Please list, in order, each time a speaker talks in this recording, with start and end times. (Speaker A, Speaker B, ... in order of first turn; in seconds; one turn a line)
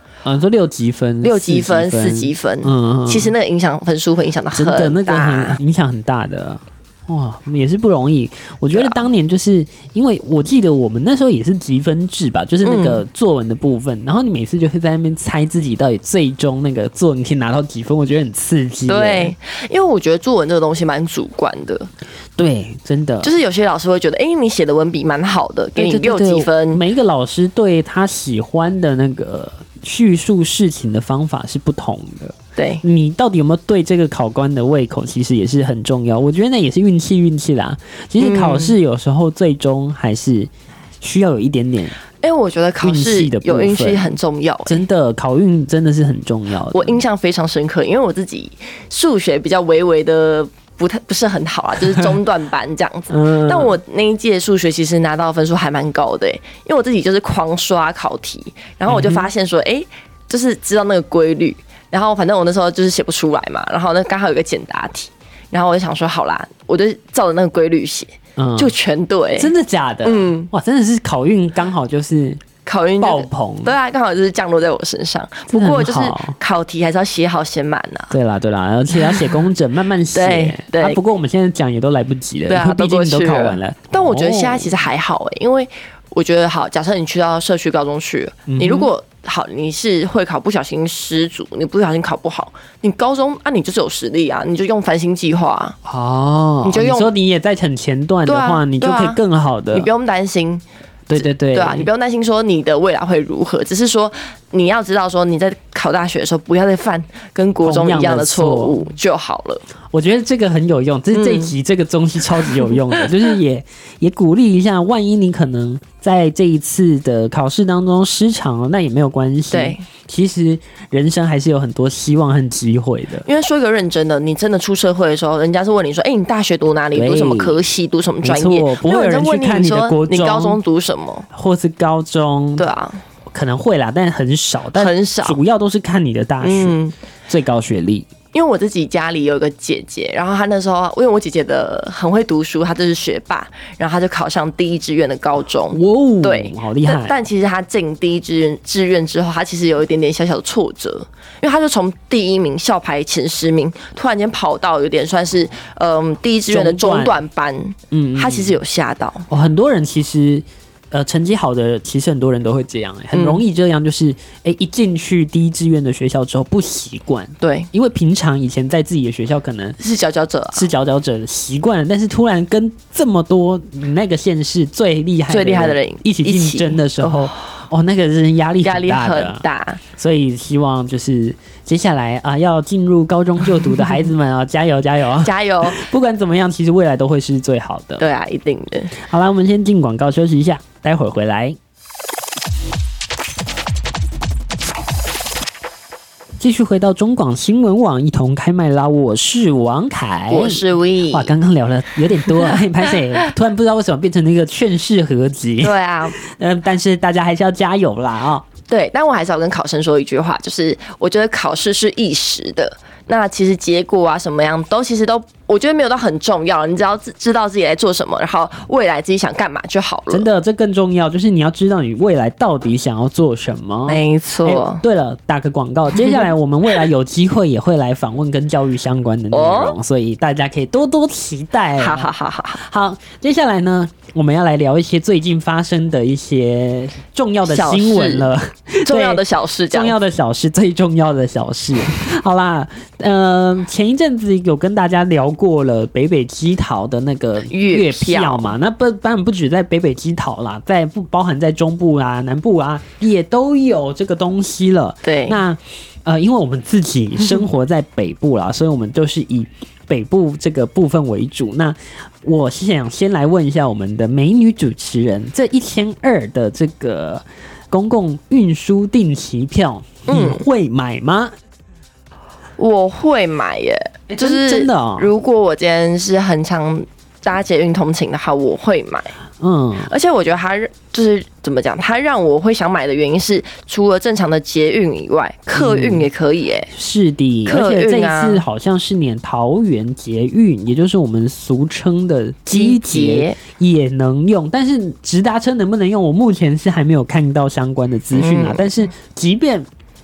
Speaker A: 0.2-3.3
Speaker B: 1.2-5.6
Speaker A: 4.5-19.3
Speaker B: 8.7-9.0
Speaker B: 12.6-13.0
Speaker B: 18.9-21.9
Speaker A: 22.4-23.4
Speaker B: 23.2-26.8
Speaker A: 25.8-42.0
Speaker B: 32.5-32.8
Speaker B: 38.2-38.8
Speaker B: 42.2-44.8
Speaker A: 42.8-44.1
Speaker A: 44.6-47.0
Speaker B: 46.7-69.5
Speaker A: 53.1-53.8
Speaker A: 58.9-59.3
Speaker A: 68.4-68.7
Speaker A: 69.4-72.4
Speaker B: 70.0-70.5
Speaker B: 72.6-78.1
Speaker A: 73.0-73.8
Speaker A: 75.5-76.4
Speaker A: 78.1-84.7
Speaker B: 78.9-79.4
Speaker B: 80.1-81.0
Speaker B: 82.5-95.8
Speaker A: 88.5-88.9
Speaker A: 95.8-99.9
Speaker B: 96.6-97.1
Speaker B: 98.2-99.2
Speaker B: 99.7-100.6
Speaker A: 101.1-101.9
Speaker B: 101.1-109.6
Speaker A: 107.6-108.8
Speaker A: 109.9-123.2
Speaker B: 111.1-111.5
Speaker B: 112.6-113.0
Speaker B: 119.5-119.8
Speaker B: 123.2-131.3
Speaker A: 126.9-127.6
Speaker A: 128.2-130.6
Speaker A: 131.3-132.7
Speaker B: 132.6-133.0
Speaker A: 133.3-136.8
Speaker B: 134.8-135.4
Speaker B: 136.4-137.0
Speaker A: 137.3-138.1
Speaker B: 138.3-159.3
Speaker A: 145.7-147.2
Speaker A: 156.5-157.2
Speaker A: 157.9-158.6
Speaker A: 159.3-169.8
Speaker B: 163.1-163.4
Speaker B: 167.4-167.7
Speaker B: 169.8-170.7
Speaker A: 170.5-188.1
Speaker B: 175.3-177.4
Speaker B: 178.6-179.8
Speaker B: 185.2-185.8
Speaker B: 188.0-189.0
Speaker A: 188.9-191.6
Speaker A: 196.4-208.5
Speaker B: 200.3-201.3
Speaker B: 205.6-206.2
Speaker B: 208.7-220.2
Speaker A: 220.1-271.3
Speaker B: 223.9-224.8
Speaker B: 225.9-226.2
Speaker B: 229.3-229.8
Speaker B: 231.8-232.6
Speaker B: 237.4-238.3
Speaker B: 238.8-239.9
Speaker B: 247.5-248.5
Speaker B: 255.0-255.4
Speaker B: 270.1-270.4
Speaker B: 272.6-279.1
Speaker A: 274.1-275.1
Speaker A: 279.4-279.9
Speaker B: 279.8-286.7
Speaker A: 285.5-286.1
Speaker A: 286.7-299.7
Speaker B: 287.5-288.4
Speaker B: 292.5-293.4
Speaker B: 298.1-298.8